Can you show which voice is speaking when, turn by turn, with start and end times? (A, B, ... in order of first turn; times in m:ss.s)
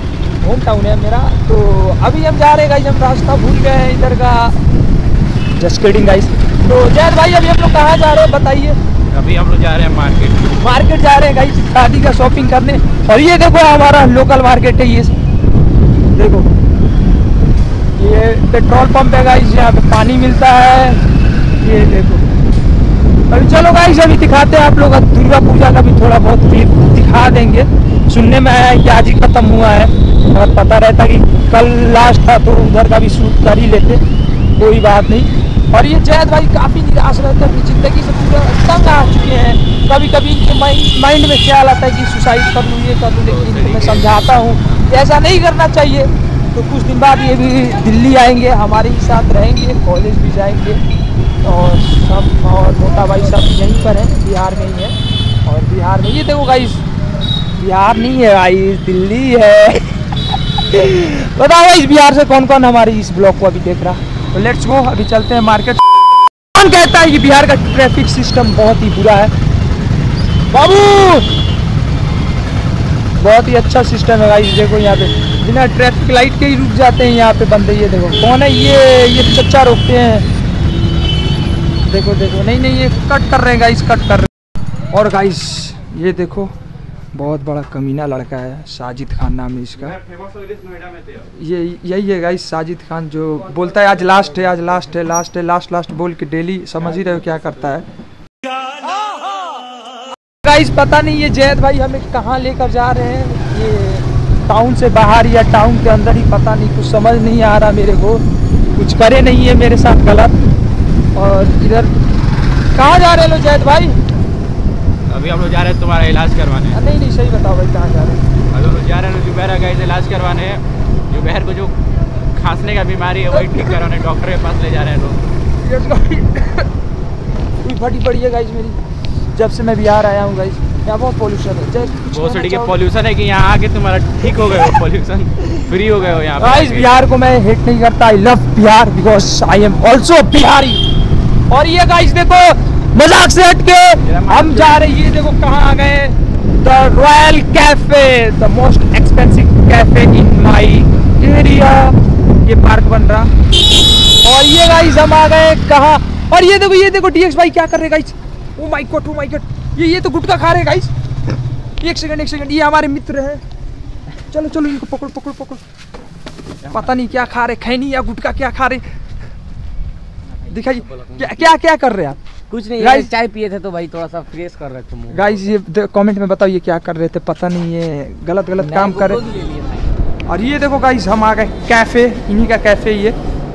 0:00.4-0:04.6 A
0:05.6-0:08.8 A
0:09.1-0:10.5 B
0:10.6-0:15.1 A
0:16.1-0:16.5 A
0:18.0-0:21.0 A
0:21.6-0:22.2 A
0:23.3-0:34.0 A
0:34.6-0:50.8 A
0:43.2-0:44.2 B
0:51.4-0:56.8 A
0:57.5-1:00.0 A
1:00.6-1:05.8 A
1:06.5-1:09.3 A
1:10.5-1:11.3 A
1:13.2-1:20.3 A
1:21.9-1:24.3 A
1:24.9-1:26.5 A
1:27.1-1:30.0 A
1:29.8-1:31.3 B
1:31.4-1:37.8 A
1:40.4-1:48.2 A
1:48.7-1:50.4 A
1:51.1-1:51.9 A
1:52.7-1:54.0 A
1:55.1-1:56.8 B
1:56.7-1:58.2 A
1:58.5-2:01.7 B
2:02.3-2:05.3 B
2:03.3-2:03.8 A
2:05.6-2:06.7 A
2:07.6-2:08.8 A
2:09.3-2:12.8 A
2:12.0-2:16.9 B
2:16.4-2:20.8 A
2:21.5-2:33.3 A
2:24.0-2:24.8 B
2:34.2-2:40.9 A
2:41.8-2:43.4 A
2:44.3-2:45.6 A
2:46.7-2:48.8 A
2:50.3-2:51.3 C
2:50.5-2:52.2 A
2:52.5-2:55.4 C
2:52.8-2:53.1 A
2:55.1-2:59.2 A
2:58.6-2:59.9 C
3:00.3-3:03.2 A